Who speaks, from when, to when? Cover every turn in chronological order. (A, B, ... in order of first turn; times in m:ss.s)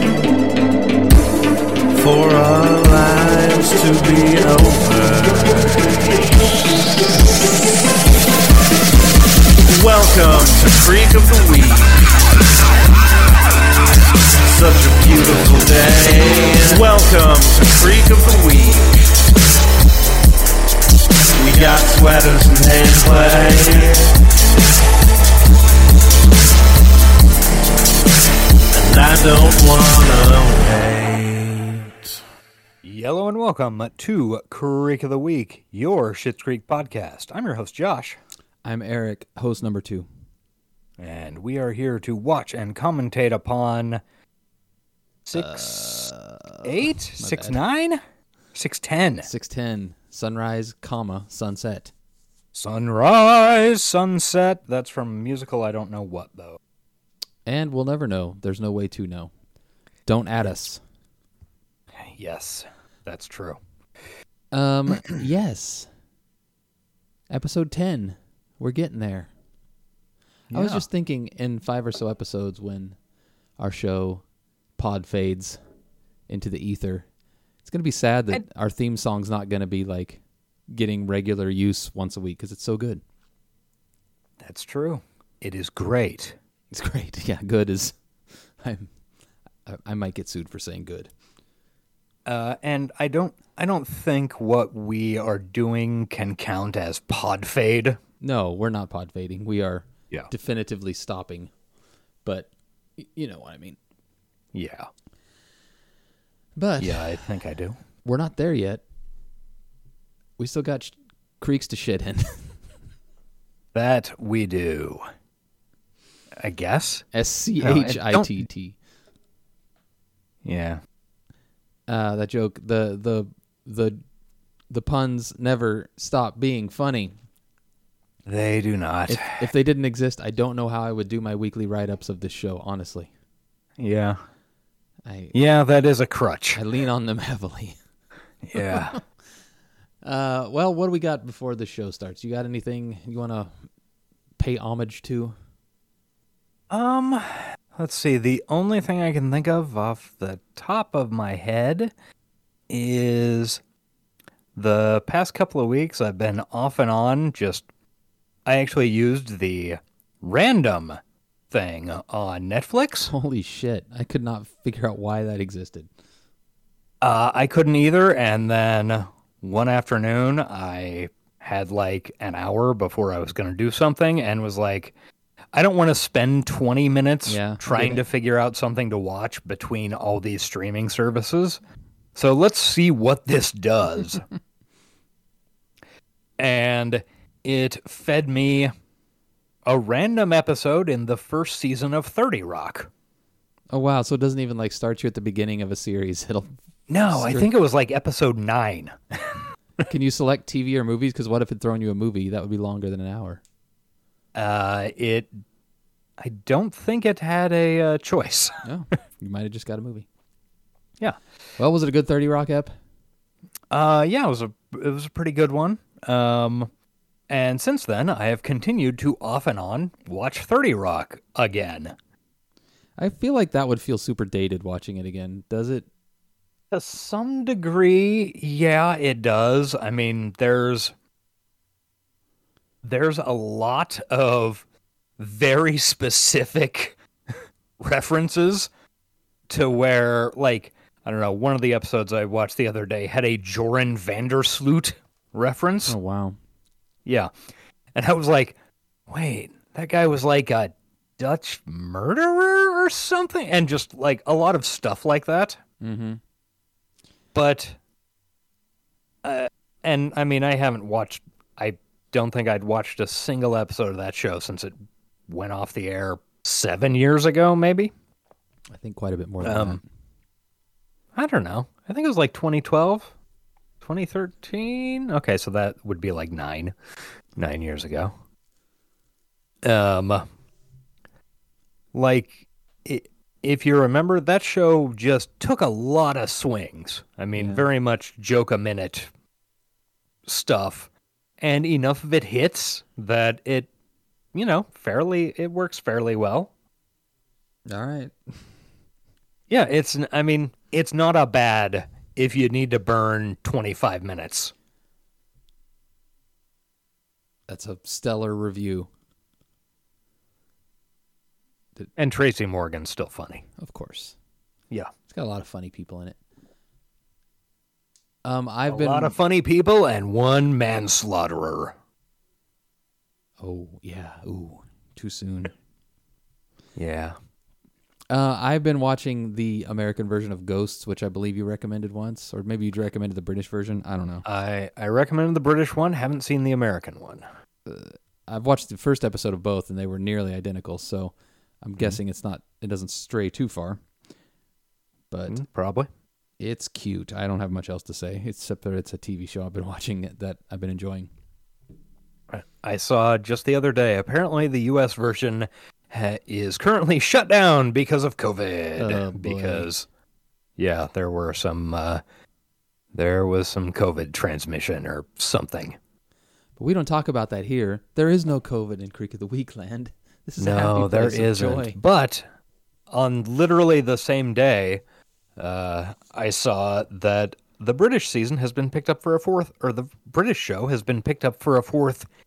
0:01.9-0:06.3 A
0:09.6-0:12.2 A
0:14.4-0:19.1 A
0:21.3-0:24.1 A
0:28.7-0:32.2 A
0:32.8-0:38.2 B
0:38.6-0:40.1 C
0:41.0-0:44.0 B
0:45.3-0:46.1 B
0:45.3-0:47.6 C
0:46.6-0:48.0 B
0:48.6-0:49.3 B
0:49.2-0:51.9 C
0:52.5-0:56.6 B
0:57.5-0:59.3 C
1:00.1-1:00.8 C
1:02.0-1:03.6 B
1:04.5-1:05.9 C
1:07.3-1:09.3 C
1:10.5-1:10.8 B
1:10.5-1:13.0 C
1:13.6-1:14.2 C
1:14.8-1:15.6 C
1:16.3-1:17.1 C
1:17.6-1:23.0 C
1:24.4-1:26.4 B
1:26.7-1:28.0 C
1:28.6-1:28.9 C
1:29.7-1:31.1 C
1:32.3-1:38.0 B
1:38.2-1:41.5 C
1:42.2-1:43.8 C
1:44.5-1:44.9 B
1:46.6-1:47.2 C
1:46.8-1:47.8 B
1:48.0-1:48.8 C
1:50.4-1:52.6 C
1:53.7-1:55.1 B
1:56.4-1:57.1 B
1:57.1-1:58.8 C
1:57.6-1:58.3 B
2:00.4-2:00.8 B
2:01.9-2:04.0 C
2:04.7-2:07.2 C
2:08.3-2:09.5 B
2:09.1-2:13.1 C
2:13.8-2:14.2 B
2:15.0-2:15.4 C
2:15.3-2:16.6 B
2:16.5-2:17.8 C
2:18.4-2:19.0 B
2:18.5-2:19.0 C
2:20.0-2:23.7 C
2:24.4-2:25.4 C
2:26.7-2:31.9 B
2:32.7-2:33.6 B
2:34.6-2:37.6 B
2:38.5-2:41.0 B
2:41.5-2:43.1 B
2:43.1-2:45.9 C
2:47.0-2:54.9 B
2:55.5-3:01.6 B
2:57.3-2:58.1 C
3:02.2-3:04.3 B
3:06.4-3:08.7 B
3:09.7-3:12.9 B
3:13.7-3:17.5 C
3:16.9-3:19.5 B
3:19.9-3:23.4 C
3:24.3-3:25.4 B
3:26.2-3:28.6 B
3:28.6-3:30.1 C
3:31.6-3:32.7 C
3:33.7-3:36.7 B
3:37.3-3:42.0 B
3:43.0-3:45.9 C
3:46.7-3:50.9 B
3:52.8-3:54.6 B
3:55.2-3:57.0 B
3:57.8-3:58.7 B
3:59.5-4:06.0 B
4:05.9-4:06.4 C
4:07.1-4:07.3 B
4:07.9-4:08.6 B
4:09.1-4:15.6 B
4:15.8-4:16.2 C
4:17.3-4:17.8 B
4:19.2-4:27.9 B
4:28.7-4:29.8 C
4:29.4-4:29.8 B
4:31.2-4:33.1 B
4:33.8-4:36.8 B
4:37.4-4:38.2 B
4:39.6-4:40.3 B
4:41.9-4:49.1 B
4:47.3-4:47.7 C
4:50.3-4:50.9 B
4:51.4-4:53.7 B
4:54.3-4:56.5 B
4:57.7-4:58.2 C
4:59.5-5:04.5 B
5:07.5-5:08.9 C
5:12.0-5:13.5 B
5:13.6-5:14.2 C
5:15.1-5:16.2 C
5:18.2-5:19.2 C
5:18.7-5:21.8 B
5:23.4-5:25.5 C
5:26.8-5:27.2 B
5:28.1-5:34.2 C
5:34.2-5:37.3 B
5:37.7-5:43.8 C
5:45.1-5:45.4 C
5:45.3-5:45.9 B
5:46.4-5:51.1 C
5:52.3-5:59.9 B
5:58.8-5:59.7 C
6:00.6-6:02.0 B
6:02.9-6:05.8 B
6:06.6-6:11.8 C
6:10.4-6:12.3 B
6:12.9-6:14.8 B
6:15.4-6:22.1 B